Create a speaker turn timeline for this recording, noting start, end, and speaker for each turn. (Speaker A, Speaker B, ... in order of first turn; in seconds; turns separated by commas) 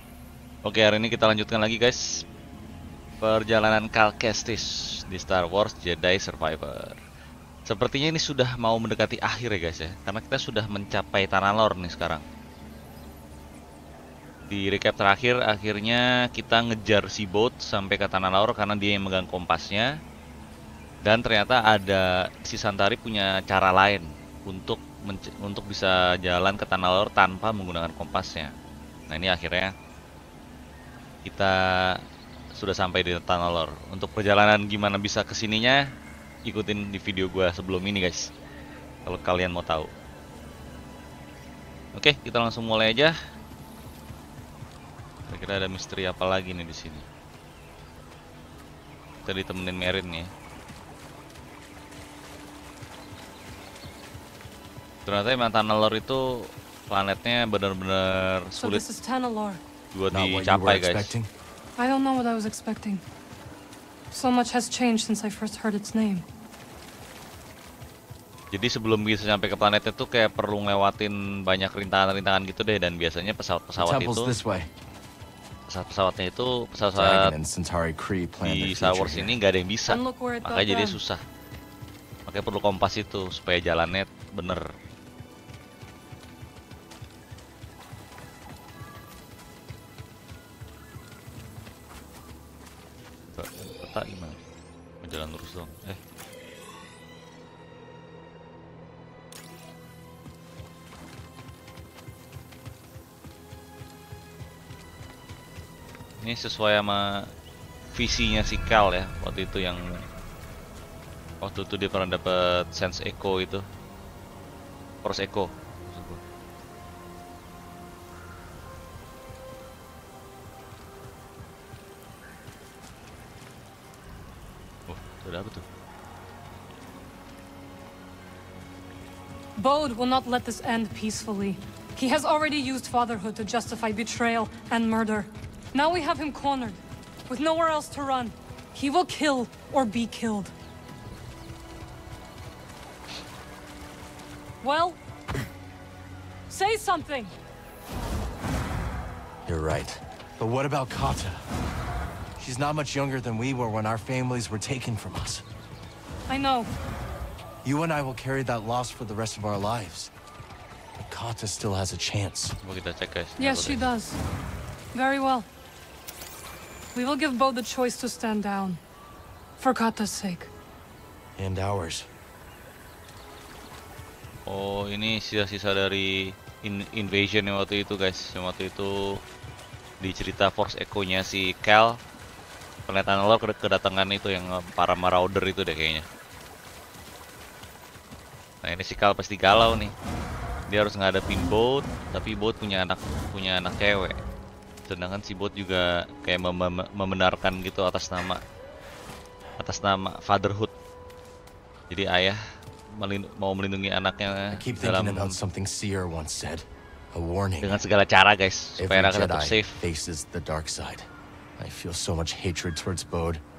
Speaker A: 0.6-2.0, Speaker A: 3.2-7.0, Speaker A: 7.7-12.2, Speaker A: 14.5-19.9, Speaker A: 21.0-28.5, Speaker A: 29.1-29.7, Speaker A: 31.2-32.0, Speaker A: 32.6-35.8, Speaker A: 36.5-38.3, Speaker A: 39.0-39.9, Speaker A: 41.9-43.1, Speaker A: 45.3-47.0, Speaker A: 49.2-50.3, Speaker A: 55.0-58.8, Speaker B: 58.6-59.6, Speaker A: 59.9-61.1, Speaker C: 60.1-61.3, Speaker B: 61.8-63.0, Speaker B: 64.1-66.2, Speaker A: 68.5-74.3, Speaker C: 73.8-74.7, Speaker A: 75.7-77.3, Speaker C: 76.9-79.4, Speaker A: 78.4-81.2, Speaker B: 79.9-81.0, Speaker A: 82.2-84.6, Speaker A: 93.3-94.4, Speaker A: 95.0-96.0, Speaker A: 106.2-107.3, Speaker A: 107.9-109.8, Speaker A: 111.4-113.6, Speaker A: 115.0-116.2, Speaker A: 124.9-125.6, Speaker B: 129.6-140.5, Speaker B: 144.6-145.0, Speaker B: 146.5-147.3, Speaker C: 149.4-151.4, Speaker C: 152.3-155.4, Speaker B: 156.3-156.7, Speaker C: 157.6-160.1, Speaker C: 161.0-162.6, Speaker A: 162.6-163.9, Speaker B: 163.4-164.2, Speaker B: 164.9-165.5, Speaker B: 166.9-168.8, Speaker B: 169.6-170.5, Speaker C: 171.4-172.1, Speaker A: 174.4-179.2, Speaker A: 180.0-182.0, Speaker A: 182.9-186.0, Speaker A: 188.6-189.9, Speaker A: 190.7-194.2, Speaker A: 194.9-198.4, Speaker A: 199.6-200.7, Speaker A: 201.9-202.4, Speaker A: 202.9-205.3, Speaker C: 204.5-207.8, Speaker A: 207.6-209.8, Speaker C: 208.8-213.4